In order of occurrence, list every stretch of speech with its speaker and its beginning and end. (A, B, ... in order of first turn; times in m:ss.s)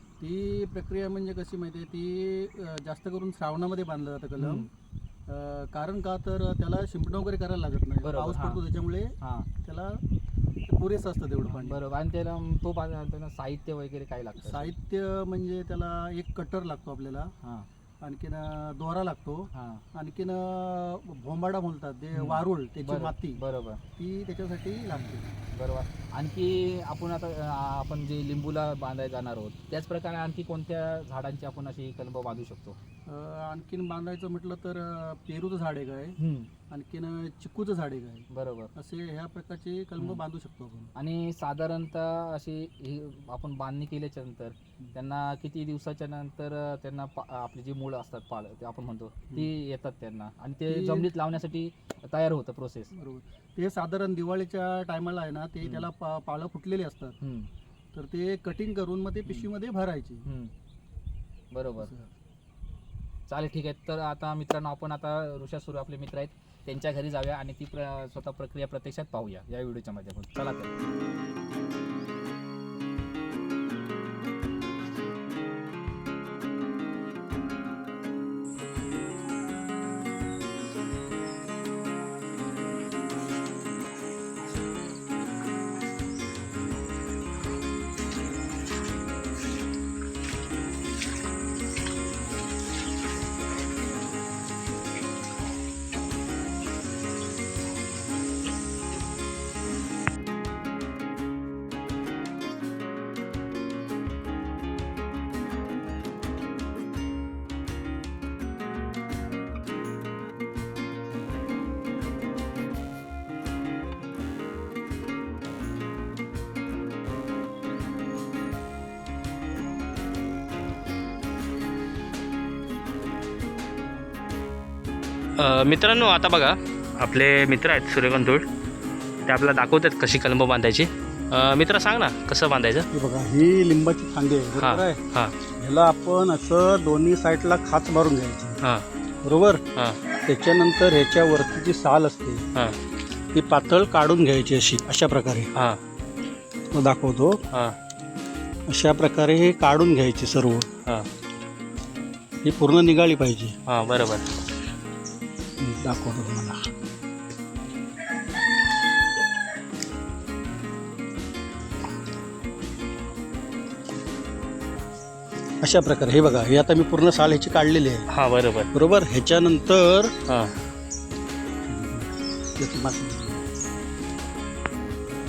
0:00.2-0:04.7 A
0:04.4-0:04.7 B
0:05.3-0:10.0 A
0:08.0-0:08.6 B
0:09.2-0:09.5 B
0:10.6-0:11.8 A
0:11.4-0:14.7 B
0:14.4-0:17.3 A
0:17.4-0:17.7 B
0:18.0-0:23.4 A
0:19.5-0:19.8 B
0:22.1-0:23.8 B
0:24.0-0:25.3 A
0:24.9-0:32.8 B
0:33.0-0:36.2 A
0:36.2-0:36.5 B
0:36.7-0:40.9 A
0:38.3-0:38.7 B
0:40.9-0:52.9 B
0:50.7-0:51.1 A
0:52.9-0:57.2 A
0:55.6-0:55.9 B
0:57.2-0:57.5 B
0:57.9-1:00.2 A
1:00.2-1:00.5 B
1:01.5-1:01.9 B
1:01.8-1:02.1 A
1:03.3-1:10.8 B
2:05.4-2:08.4 C
2:09.2-2:12.9 C
2:12.9-2:15.0 A
2:14.6-2:15.3 C
2:15.6-2:18.6 A
2:19.2-2:19.6 A
2:20.2-2:22.4 A
2:23.3-2:25.5 A
2:26.7-2:27.4 A
2:28.7-2:30.7 A
2:32.4-2:33.5 A
2:33.7-2:34.2 C
2:35.6-2:36.6 A
2:45.6-2:48.0 A
2:48.1-2:48.7 C
2:48.7-2:50.1 A
2:50.3-2:50.5 C
2:51.6-2:53.4 A